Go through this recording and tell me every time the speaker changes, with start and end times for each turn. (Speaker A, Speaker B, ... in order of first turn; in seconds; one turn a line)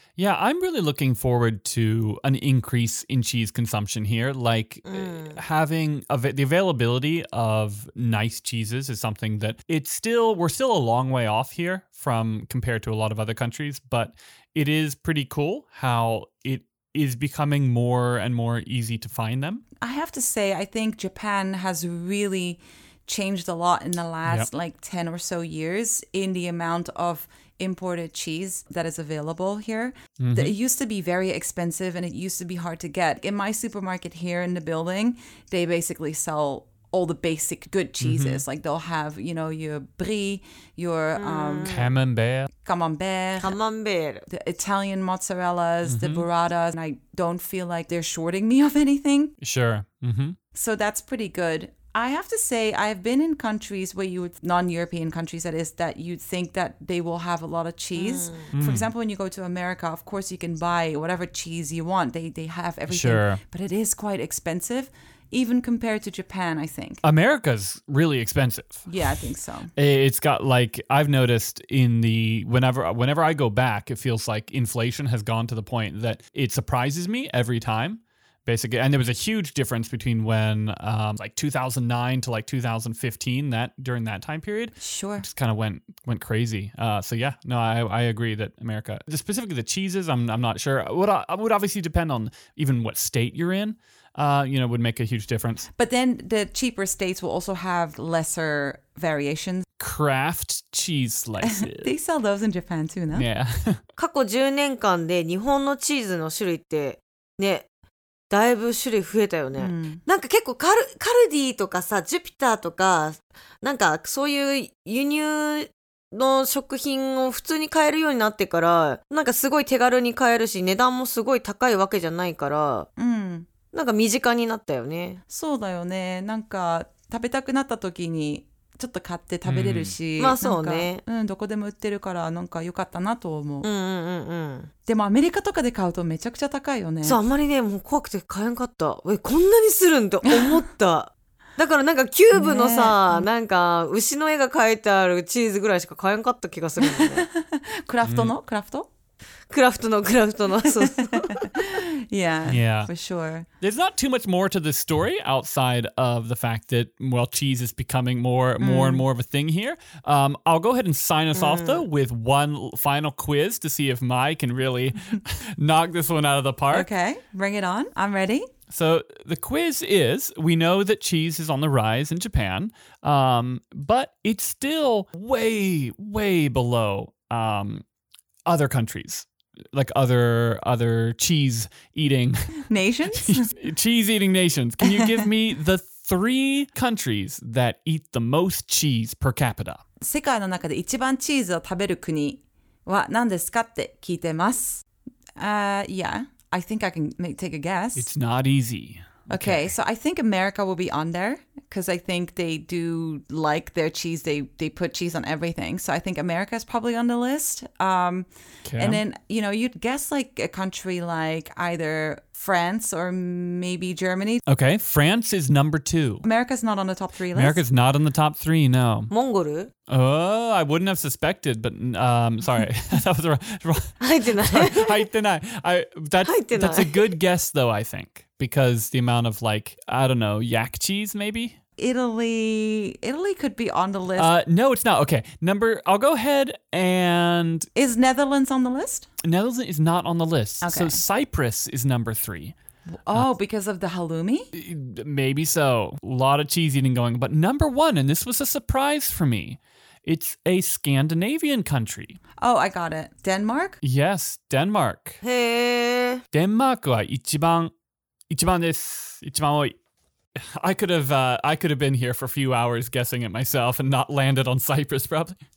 Speaker A: 0.2-19.6
Speaker B: 4.8-5.4
Speaker C: 19.8-41.8
Speaker A: 30.2-30.6
Speaker A: 38.0-38.4
Speaker B: 41.2-41.9
Speaker A: 41.6-42.5
Speaker C: 42.6-43.5
Speaker B: 43.4-44.3
Speaker C: 44.3-49.4
Speaker A: 45.9-46.2
Speaker A: 49.4-50.4
Speaker C: 50.5-67.0
Speaker B: 58.0-58.5
Speaker A: 58.5-58.9
Speaker A: 62.9-63.4
Speaker A: 67.0-68.9
Speaker C: 68.9-69.7
Speaker A: 69.8-95.7
Speaker C: 84.8-85.3
Speaker C: 95.8-99.7
Speaker A: 99.8-101.9
Speaker C: 101.4-103.3
Speaker A: 103.1-103.8
Speaker B: 104.0-107.7
Speaker B: 108.3-122.9
Speaker C: 109.6-110.0
Speaker C: 123.0-123.5
Speaker B: 123.7-125.2
Speaker C: 125.3-133.7
Speaker A: 129.4-129.9
Speaker B: 130.2-131.0
Speaker B: 133.6-134.7
Speaker C: 134.9-137.2
Speaker B: 137.0-147.3
Speaker C: 140.3-140.6
Speaker C: 142.3-143.3
Speaker C: 146.8-148.9
Speaker A: 148.0-148.3
Speaker B: 149.5-151.8
Speaker C: 150.7-153.5
Speaker A: 152.5-152.9
Speaker A: 153.6-166.9
Speaker C: 158.6-159.1
Speaker B: 161.3-161.8
Speaker C: 166.7-168.5
Speaker A: 168.7-177.8
Speaker A: 178.5-189.8
Speaker C: 182.7-183.5
Speaker C: 184.8-185.3
Speaker C: 190.0-194.8
Speaker C: 195.4-198.1
Speaker A: 198.0-199.7
Speaker C: 199.3-214.4
Speaker A: 208.7-209.0
Speaker A: 214.5-216.3
Speaker C: 216.2-217.6
Speaker A: 217.3-219.1
Speaker B: 219.1-219.7
Speaker A: 219.9-231.6
Speaker B: 224.0-225.1
Speaker B: 226.2-227.1
Speaker C: 231.8-234.3
Speaker A: 234.2-237.7
Speaker C: 237.8-239.1
Speaker A: 239.2-242.6
Speaker C: 240.6-241.0
Speaker C: 243.0-244.5
Speaker A: 244.5-252.2
Speaker C: 252.4-253.8
Speaker A: 253.8-255.2
Speaker B: 255.2-256.2
Speaker A: 256.3-257.7
Speaker A: 258.3-259.8
Speaker A: 260.4-265.4